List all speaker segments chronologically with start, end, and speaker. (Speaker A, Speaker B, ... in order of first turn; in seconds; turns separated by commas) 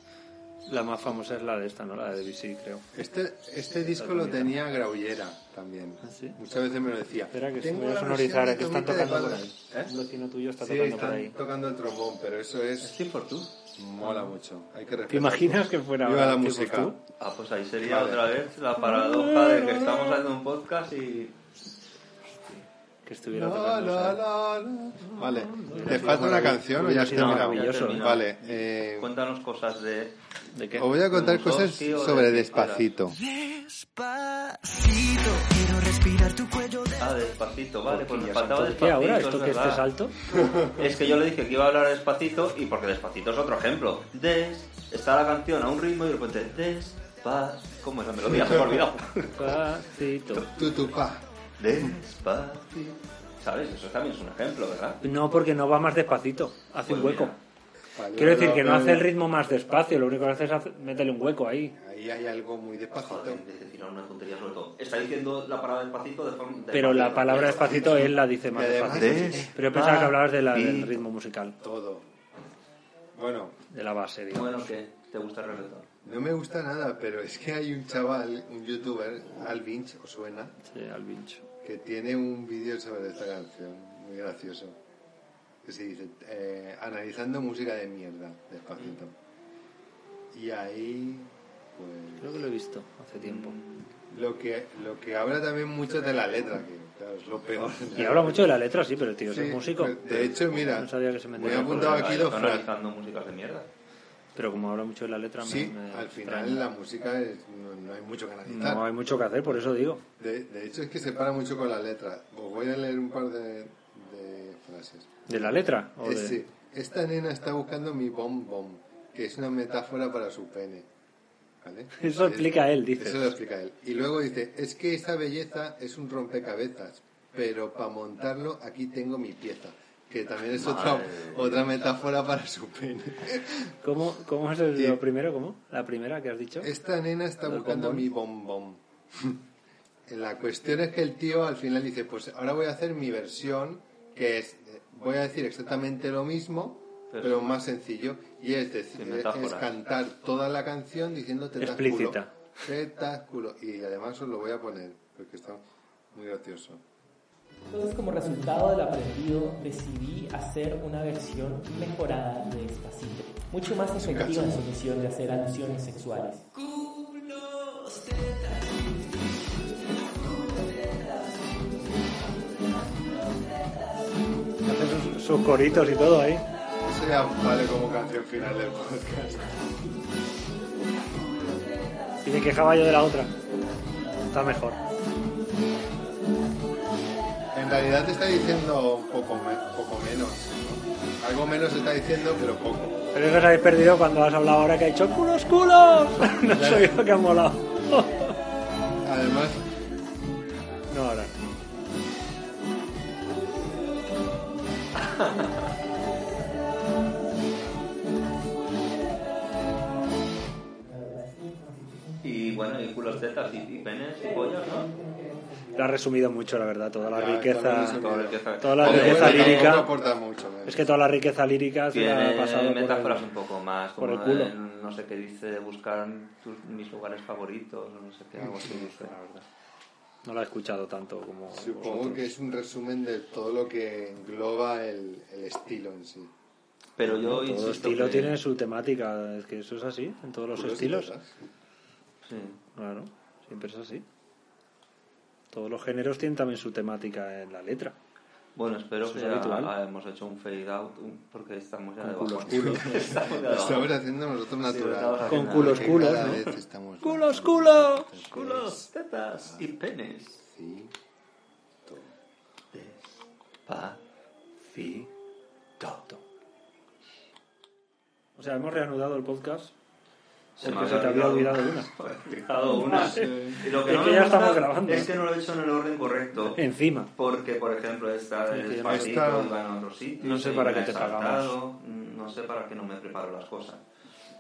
Speaker A: 0.7-2.9, Speaker B: 2.9-9.9, Speaker A: 3.9-4.5, Speaker A: 6.0-6.4, Speaker A: 7.3-11.4, Speaker B: 10.6-13.0, Speaker C: 12.8-13.6, Speaker B: 13.8-17.0, Speaker A: 14.0-14.3, Speaker A: 15.1-17.0, Speaker C: 17.2-21.4, Speaker B: 17.8-18.3, Speaker A: 18.8-20.2, Speaker A: 22.5-24.2, Speaker B: 23.3-29.1, Speaker A: 25.2-28.1, Speaker C: 27.1-30.2, Speaker A: 30.5-30.9, Speaker B: 30.8-33.2, Speaker C: 31.0-32.9, Speaker D: 33.1-37.2, Speaker C: 37.0-39.9, Speaker A: 37.9-40.1, Speaker B: 40.3-40.9, Speaker C: 40.8-49.6, Speaker B: 48.4-48.6, Speaker A: 49.3-50.5, Speaker B: 50.4-51.3, Speaker C: 51.6-55.0, Speaker A: 55.0-57.4, Speaker C: 56.9-57.4, Speaker B: 58.0-59.1, Speaker A: 58.1-61.8, Speaker B: 61.8-63.4, Speaker C: 63.0-68.1, Speaker A: 66.7-71.6, Speaker B: 67.6-69.5, Speaker C: 68.9-71.0, Speaker B: 71.6-72.1, Speaker B: 73.2-73.6, Speaker A: 73.7-74.7, Speaker C: 74.3-75.9, Speaker B: 76.0-80.5, Speaker A: 80.7-81.5, Speaker B: 81.6-84.8, Speaker B: 85.6-89.1, Speaker B: 90.3-92.5, Speaker A: 92.2-93.6, Speaker C: 93.2-93.9, Speaker B: 94.1-98.6, Speaker A: 97.9-102.0, Speaker B: 99.3-102.7, Speaker C: 101.4-103.7, Speaker A: 104.4-106.7, Speaker B: 105.4-108.9, Speaker A: 108.5-110.0, Speaker B: 110.1-120.9, Speaker A: 115.3-116.4, Speaker B: 121.6-133.8, Speaker A: 122.0-123.3, Speaker C: 130.5-131.8, Speaker A: 133.8-136.7, Speaker B: 134.7-135.0, Speaker B: 136.6-139.4, Speaker A: 137.5-138.1, Speaker B: 140.1-156.8, Speaker C: 147.1-147.5, Speaker C: 149.0-149.7, Speaker A: 151.6-152.3, Speaker E: 157.7-166.5, Speaker B: 164.0-164.7, Speaker D: 166.7-171.4, Speaker A: 174.6-176.4, Speaker B: 176.8-179.7, Speaker A: 182.2-183.3, Speaker A: 184.2-184.8, Speaker B: 187.5-193.0, Speaker A: 193.1-198.3, Speaker B: 196.5-196.9, Speaker B: 199.0-199.6, Speaker A: 200.9-201.4, Speaker C: 205.0-205.5, Speaker E: 210.8-212.2, Speaker C: 212.2-214.9, Speaker E: 214.6-215.7, Speaker A: 215.8-218.0, Speaker B: 217.0-220.9, Speaker C: 218.0-219.9, Speaker A: 218.6-219.9, Speaker A: 220.7-223.3, Speaker C: 221.9-229.2, Speaker A: 224.0-224.5, Speaker A: 228.7-229.4, Speaker A: 230.2-232.3, Speaker B: 231.5-236.3, Speaker C: 237.0-238.4, Speaker A: 237.1-241.1, Speaker B: 240.5-241.4, Speaker C: 242.2-242.6, Speaker A: 242.8-244.1, Speaker A: 245.5-248.0, Speaker C: 248.6-254.0, Speaker A: 249.0-249.7, Speaker A: 252.0-252.9, Speaker B: 252.5-259.7, Speaker C: 254.6-256.5, Speaker A: 255.3-256.4, Speaker A: 257.0-258.2, Speaker C: 258.2-260.4, Speaker B: 260.4-260.9, Speaker B: 261.9-262.2, Speaker C: 262.7-264.0, Speaker C: 264.8-265.1, Speaker C: 265.8-266.1, Speaker A: 268.4-269.7, Speaker C: 270.6-276.6, Speaker A: 270.6-271.9, Speaker A: 272.9-275.1, Speaker B: 272.9-273.6, Speaker A: 276.5-277.1, Speaker C: 277.2-283.8, Speaker A: 278.5-279.2, Speaker B: 278.9-279.6, Speaker A: 280.2-281.6